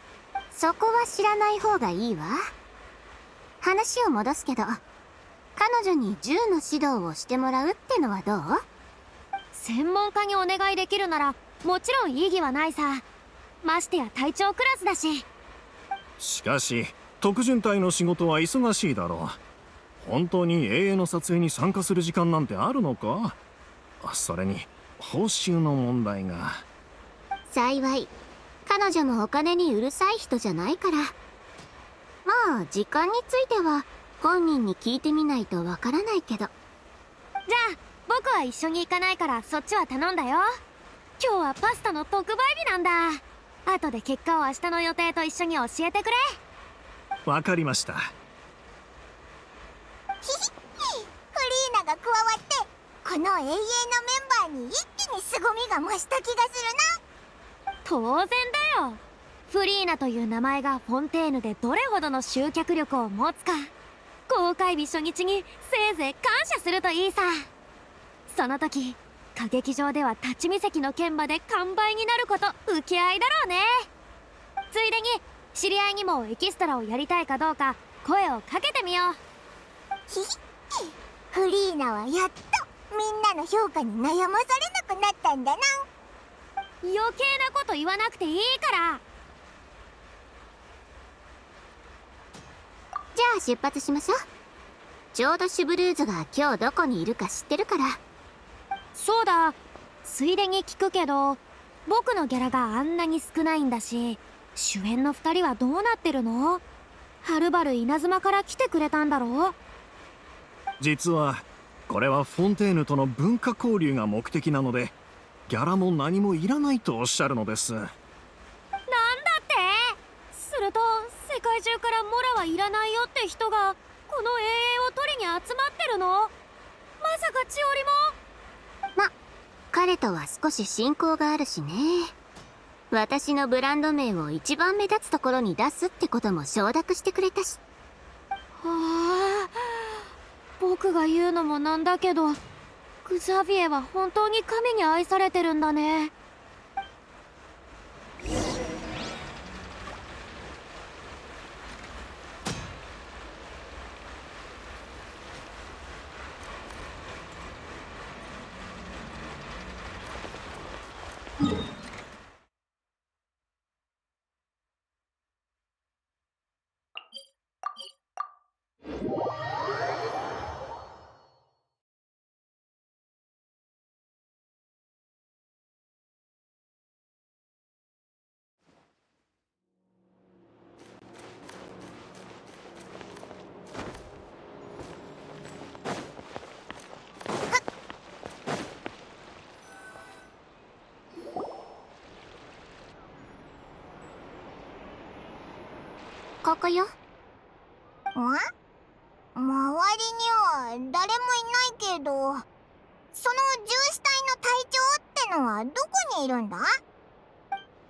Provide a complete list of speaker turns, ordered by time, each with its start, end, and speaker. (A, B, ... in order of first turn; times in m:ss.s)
0:00.5-0:02.5 A
0:03.6-0:04.8 A
0:05.6-0:08.6 A
0:09.5-0:13.0 B
0:13.6-0:15.2 B
0:16.2-0:19.4 C
0:20.0-0:23.4 C
0:24.0-0:26.6 C
0:27.5-0:28.1 A
0:28.6-0:31.2 A
0:32.2-0:36.5 A
0:37.5-0:40.5 B
0:41.2-0:46.2 B
0:47.2-0:48.1 C
0:50.2-0:56.8 D
0:57.8-1:03.7 B
1:04.3-1:07.4 B
1:08.3-1:13.7 B
1:14.7-1:19.2 B
1:20.1-1:25.8 D
1:26.8-1:29.0 B
1:33.1-1:34.2 A
1:35.1-1:38.0 A
1:38.9-1:46.6 B
1:47.2-1:49.6 B
1:50.8-1:55.0 C
1:55.5-1:57.8 C
1:58.9-2:06.3 B
2:07.0-2:08.1 B
2:09.7-2:12.1 A
2:12.9-2:17.6 A
2:18.6-2:20.0 B
2:20.6-2:22.4 B
2:23.0-2:26.1 B
3:16.4-3:16.9 A
3:18.1-3:18.4 D
3:19.4-3:22.4 D
3:23.1-3:26.6 D